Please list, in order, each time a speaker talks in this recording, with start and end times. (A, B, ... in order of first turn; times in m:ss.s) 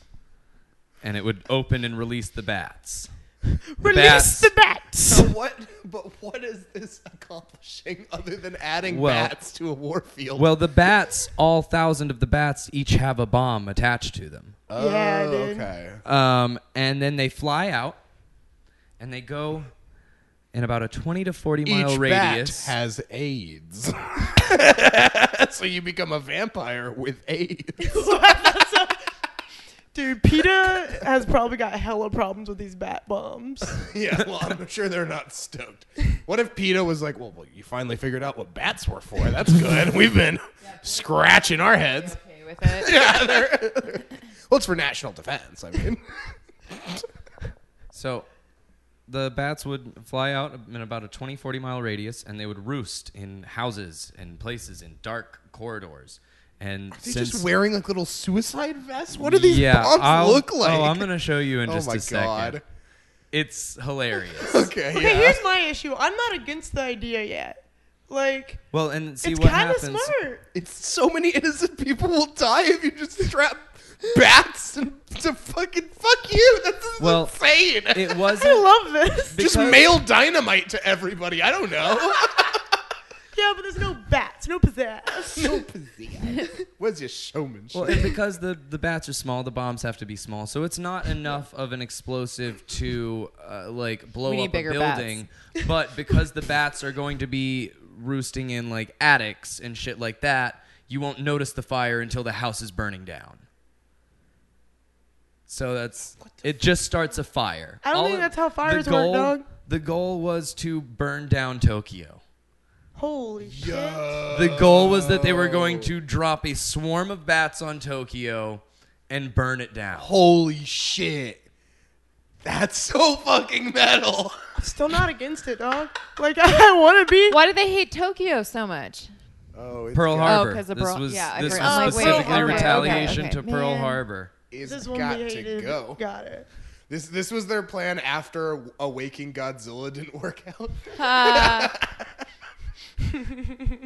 0:01.0-0:03.1 A
0:03.8-0:05.3 B
0:03.8-0:04.5 A
0:05.0-0:10.5 C
0:08.8-0:09.3 A
0:10.4-0:14.6 A
0:14.7-0:16.0 C
0:14.7-0:15.7 B
0:16.0-0:18.0 A
0:19.0-0:19.7 A
0:20.5-0:22.7 A
0:21.6-0:28.2 C
0:27.8-0:29.0 B
0:29.9-0:33.8 B
0:33.7-0:47.0 C
0:40.6-0:41.1 D
0:41.8-0:43.1 D
0:47.9-0:48.3 A
0:49.1-0:57.5 A
0:56.9-1:01.1 C
0:59.1-1:02.6 A
1:01.6-1:02.6 C
1:03.3-1:04.7 A
1:04.4-1:05.4 C
1:04.9-1:07.6 B
1:08.1-1:08.6 B
1:08.7-1:10.2 A
1:09.2-1:10.4 B
1:10.5-1:18.2 C
1:17.0-1:18.6 A
1:18.4-1:19.4 B
1:19.3-1:19.9 A
1:19.4-1:22.6 C
1:23.3-1:25.6 B
1:25.3-1:28.1 C
1:27.7-1:43.4 A
1:34.2-1:35.2 D
1:45.5-1:52.2 A
1:47.8-1:49.4 B
1:53.0-1:54.2 B
1:53.4-1:55.9 C
1:54.3-2:00.1 A
1:59.9-2:01.4 C
2:02.4-2:04.3 C
2:04.6-2:07.4 B
2:07.3-2:09.1 D
2:09.5-2:10.4 C
2:09.9-2:14.3 A
2:10.2-2:14.0 D
2:11.5-2:13.2 B
2:14.5-2:16.0 C
2:14.6-2:16.5 B
2:16.9-2:22.1 C
2:20.9-2:21.7 D